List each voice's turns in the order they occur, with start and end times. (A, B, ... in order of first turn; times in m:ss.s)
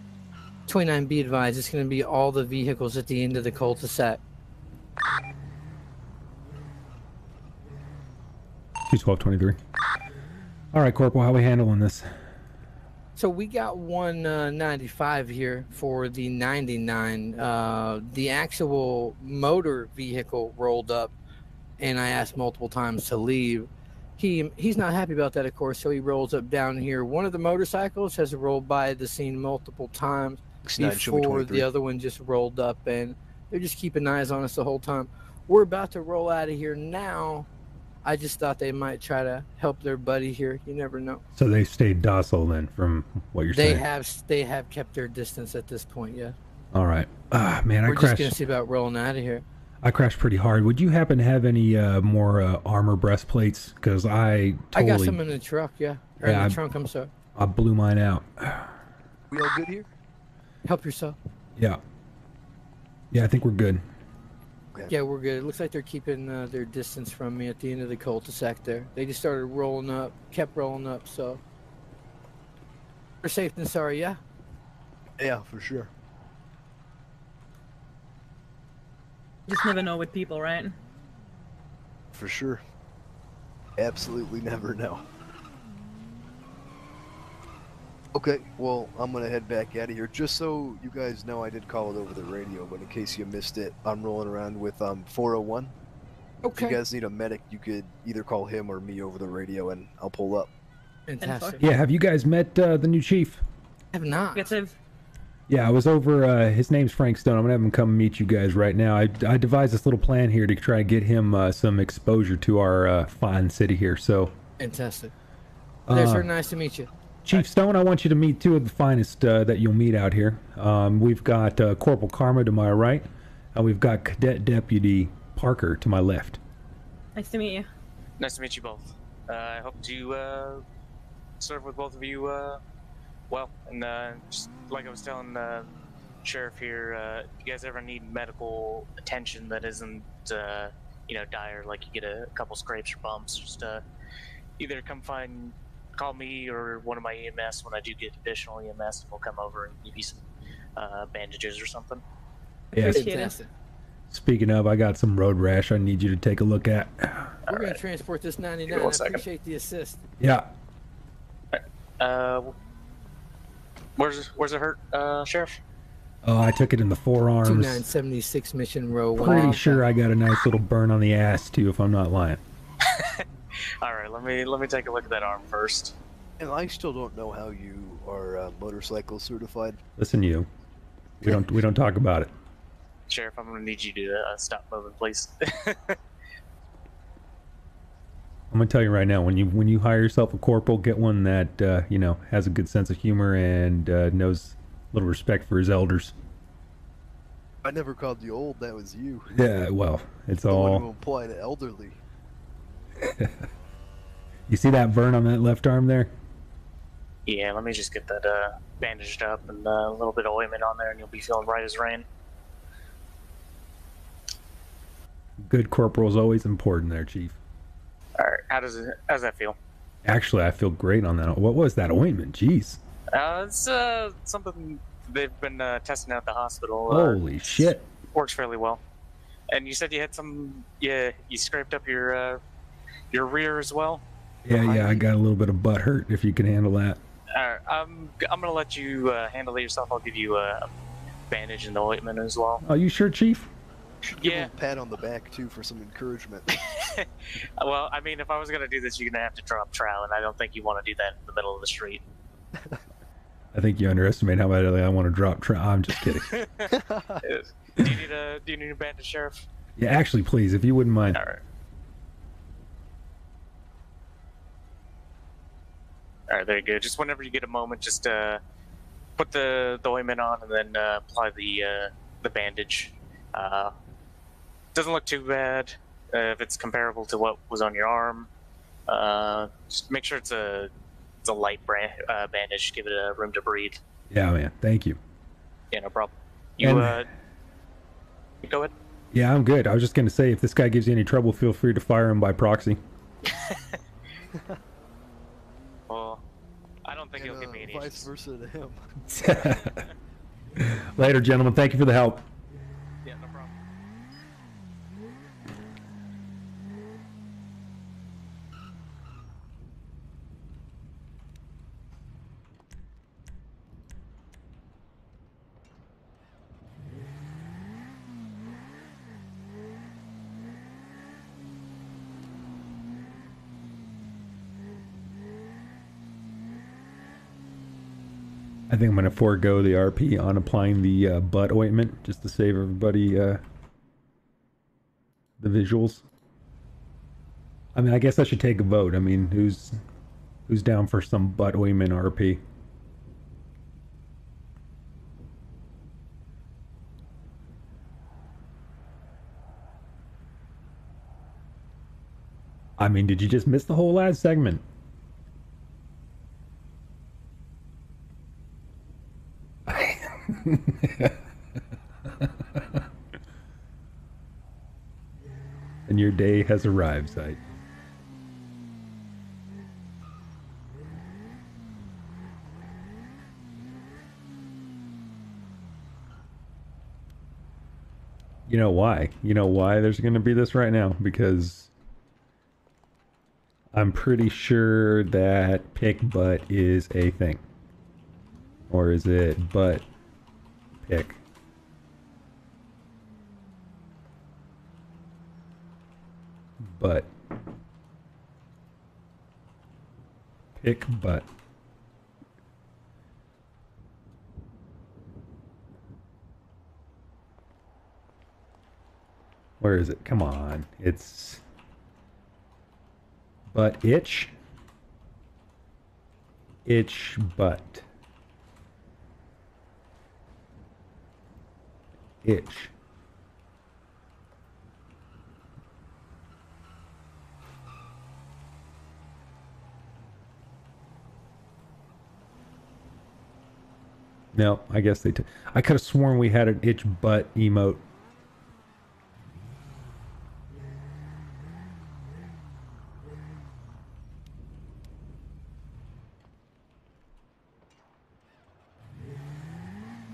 0:00.7-0:04.2 A
0:08.8-0:09.6 B
0:10.7-0:12.1 B
0:13.2-0:21.1 A
0:21.8-0:37.5 A
0:30.6-0:31.7 C
0:38.0-0:41.2 A
0:41.3-0:43.8 B
0:43.5-0:46.4 A
0:46.7-0:48.4 B
0:47.9-0:49.4 A
0:49.8-0:55.2 B
0:54.7-0:57.1 A
0:56.2-0:56.6 B
0:57.3-0:58.7 B
0:59.3-0:59.9 C
1:00.6-1:01.2 A
1:03.1-1:03.8 B
1:04.9-1:11.4 A
1:13.2-1:14.2 A
1:15.2-1:15.9 C
1:19.5-1:20.8 D
1:22.1-1:22.6 C
1:23.8-1:25.0 C
1:28.1-1:35.7 C
1:36.4-1:36.8 A
1:36.5-1:40.5 C
1:41.1-1:41.6 A
1:41.2-1:41.6 D
1:41.6-1:43.4 B
1:43.9-1:44.5 A
1:44.3-1:44.7 D
1:45.5-1:54.3 B
1:54.6-1:55.1 A
1:55.9-1:56.3 B
1:55.9-1:56.9 A
1:57.2-2:06.4 B
2:07.1-2:07.7 D
2:08.2-2:10.6 E
2:11.4-2:12.6 E
2:13.3-2:15.7 E
2:16.2-2:23.8 E
2:24.6-2:30.2 E
2:30.8-2:32.0 E
2:32.7-2:33.1 B
2:32.7-2:33.4 D
2:32.9-2:33.5 A
2:34.1-2:37.4 B
2:37.5-2:37.8 E
2:37.5-2:40.0 A
2:38.7-2:39.2 E
2:40.2-2:40.5 B
2:41.5-2:42.5 E
2:44.0-2:45.6 E
2:46.2-2:47.9 B
2:47.4-2:49.8 A
2:49.2-2:52.4 B
2:52.8-2:53.2 E
2:53.8-2:55.9 E
2:56.4-2:59.8 C
3:00.0-3:00.5 B
3:01.2-3:02.3 B
3:03.1-3:06.0 E
3:08.5-3:16.1 B
3:17.6-3:19.3 C
3:19.3-3:20.8 B
3:20.5-3:22.0 C
3:23.0-3:23.3 B
3:24.5-3:26.1 B
3:27.2-3:32.0 E
3:35.4-3:37.4 B
3:38.2-3:39.6 E
3:40.0-3:42.8 B
3:43.1-3:48.8 E
3:46.9-3:47.8 B
3:49.5-3:52.4 E
3:53.1-3:54.0 E
3:54.4-3:57.0 B
3:54.7-3:55.0 C
3:57.3-4:00.7 E
4:01.3-4:02.6 E
4:02.6-4:03.5 B
4:04.0-4:06.5 C
4:04.2-4:04.5 E
4:06.5-4:12.0 E
4:13.5-4:16.4 B
4:16.0-4:16.7 E
4:16.7-4:17.3 C
4:17.2-4:19.4 E
4:19.8-4:21.2 B
4:21.1-4:21.4 E
4:26.3-4:28.4 E
4:29.2-4:33.7 E
4:34.7-4:38.3 E
4:38.9-4:40.7 E
4:41.2-4:43.8 E
4:44.1-4:45.0 B
4:45.7-4:47.1 E
4:46.6-4:47.1 B
4:48.4-4:48.7 E
4:49.1-4:52.8 B
4:53.2-4:53.8 E
4:55.9-4:56.2 E
4:56.8-4:58.1 E
4:57.1-4:58.8 C
4:59.1-4:59.9 B
4:59.5-4:59.9 E
5:00.6-5:02.2 B
5:03.0-5:03.5 E
5:28.7-5:33.4 B
5:35.4-5:36.0 B
5:37.7-5:39.8 B
5:40.5-5:42.4 B
5:52.8-5:54.6 B
5:59.7-6:01.2 B
6:02.2-6:02.8 B
6:05.9-6:07.4 B
6:18.5-6:21.7 B
6:23.7-6:27.4 B
6:28.7-6:29.8 B
6:30.8-6:31.2 B
6:36.6-6:37.1 B
6:40.6-6:41.3 B
6:49.6-6:51.4 B
6:53.5-6:54.3 B
6:56.6-6:57.8 B
7:02.2-7:02.7 B
7:14.3-7:17.8 B